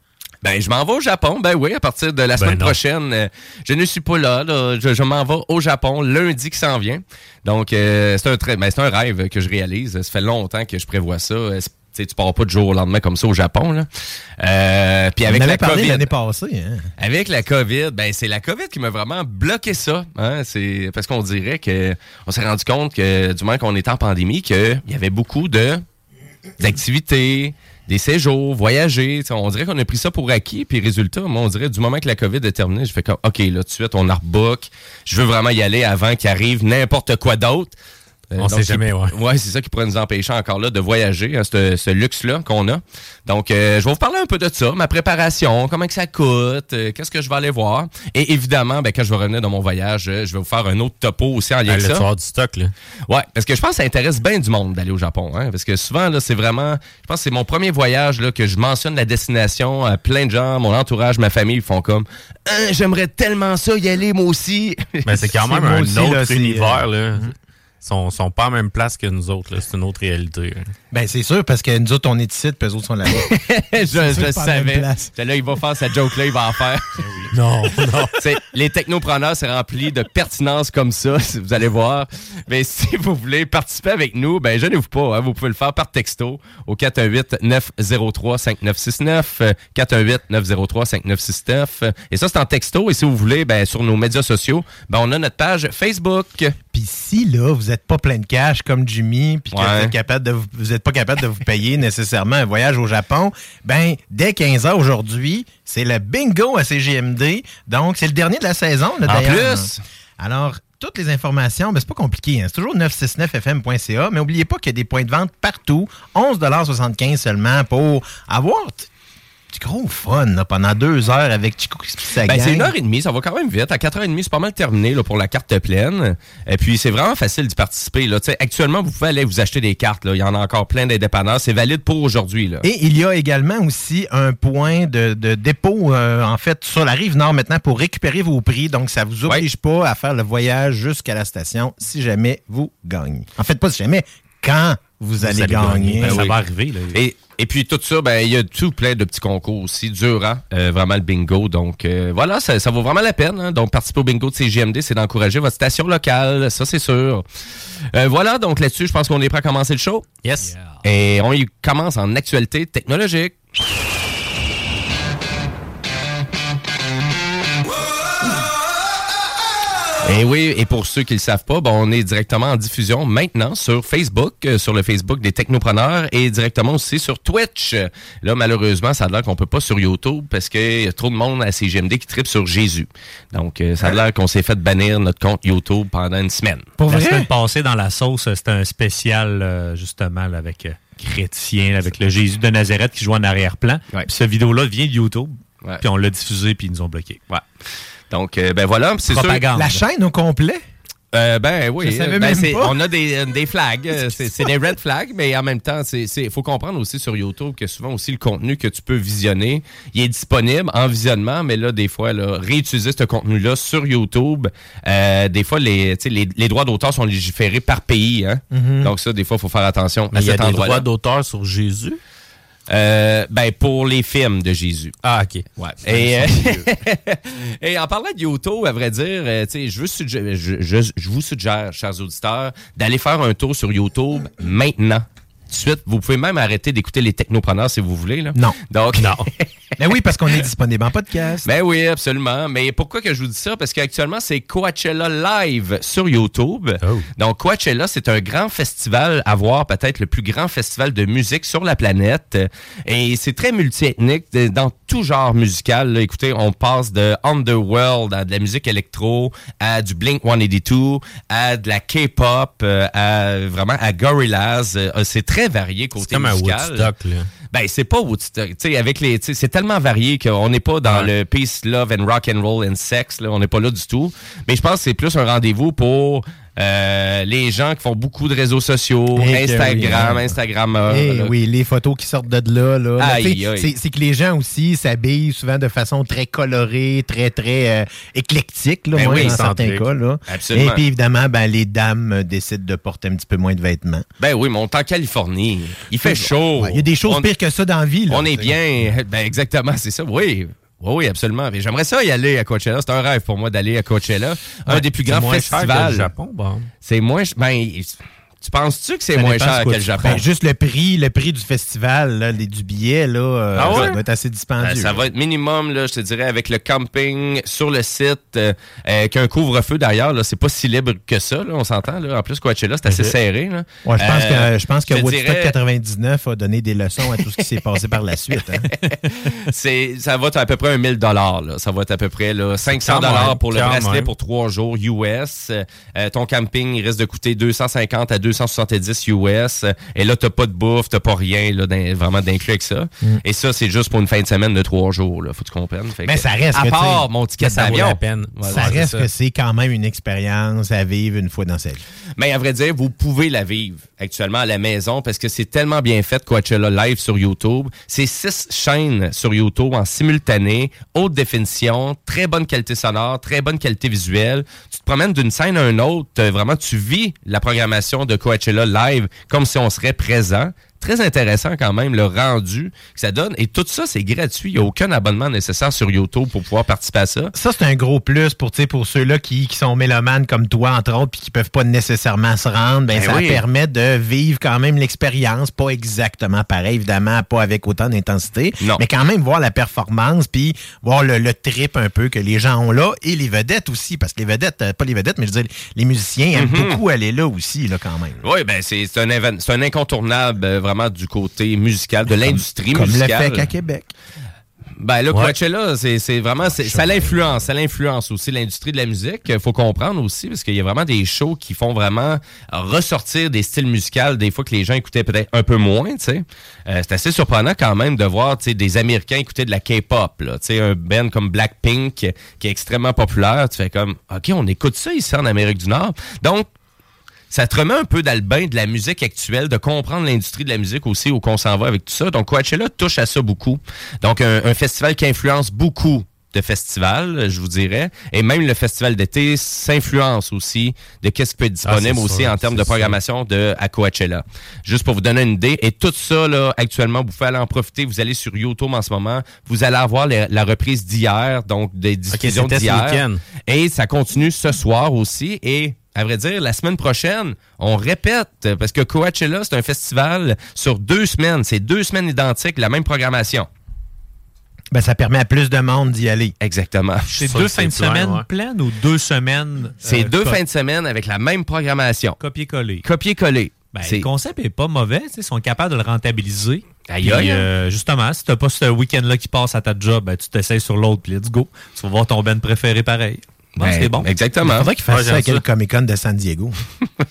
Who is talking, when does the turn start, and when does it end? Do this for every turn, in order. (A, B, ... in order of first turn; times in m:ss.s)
0:00.4-0:13.9 A
0:02.4-0:02.8 B
0:14.4-0:16.1 A
0:15.3-0:16.9 C
0:17.0-0:25.8 A
0:26.6-0:37.8 A
0:38.3-0:52.1 A
0:38.4-0:39.1 B
0:51.7-0:52.7 B
0:53.1-1:05.3 A
1:05.1-1:10.7 B
1:05.4-1:07.3 C
1:10.9-1:13.3 C
1:13.1-1:17.0 A
1:13.9-1:15.1 C
1:17.0-1:17.3 D
1:17.3-1:18.2 B
1:18.2-1:36.6 A
1:36.7-1:58.9 C
1:39.5-1:39.9 A
1:49.1-1:49.8 A
1:59.5-2:02.7 C
2:02.2-2:12.6 A
2:12.6-2:26.2 C
2:25.2-2:27.0 D
2:26.9-2:37.2 A
2:37.9-2:40.1 A
2:40.2-2:40.5 B
2:40.4-2:40.8 D
2:40.8-2:43.4 A
2:50.0-3:06.7 A
3:06.8-3:07.3 C
3:06.9-3:17.2 D
3:18.1-3:19.4 A
3:19.1-3:19.8 D
3:19.5-3:20.6 C
3:21.1-3:40.9 A
3:21.8-3:22.8 C
3:38.5-3:38.9 C
3:40.1-3:42.0 B
3:42.7-3:45.0 A
3:45.0-3:46.6 B
3:45.6-3:59.4 A
3:59.0-3:59.3 B
3:59.8-4:01.5 C
4:01.4-4:26.9 A
4:26.0-4:27.3 B
4:27.5-4:41.3 A
4:30.8-4:31.1 B
4:39.2-4:40.4 C
4:40.9-4:54.0 C
4:43.0-4:43.7 A
4:48.9-4:49.4 A
4:49.0-4:49.9 B
4:50.3-4:50.8 A
4:54.2-4:57.3 A
4:56.0-4:58.6 C
4:58.1-5:06.1 A
5:04.8-5:06.7 B
5:06.8-5:10.2 A
5:09.2-5:10.2 D
5:10.0-5:15.0 C
5:13.6-5:14.0 B
5:13.6-5:14.0 A
5:14.6-5:25.6 A
5:23.9-5:28.7 C
5:28.7-5:48.9 A
5:32.7-5:34.1 B
5:46.1-5:51.8 C
5:47.4-5:49.1 B
5:52.2-6:17.3 A
6:17.3-6:38.2 C
6:22.9-6:23.4 A
6:36.4-6:36.8 A
6:38.2-6:43.5 A
6:42.3-6:43.9 C
6:44.8-7:06.5 A
6:46.4-6:47.5 C
7:07.3-7:43.5 A
7:21.7-7:23.0 B
7:32.1-7:33.2 B
7:44.7-7:46.4 C
7:46.4-7:47.1 A
7:47.2-7:50.4 D
7:47.2-7:48.2 B
7:49.8-7:52.2 A
7:52.2-7:52.9 D
7:52.8-7:54.1 A
7:53.7-8:04.1 D
7:56.9-7:57.5 A
8:03.6-8:04.7 A
8:04.4-8:06.6 C
8:04.9-8:05.4 B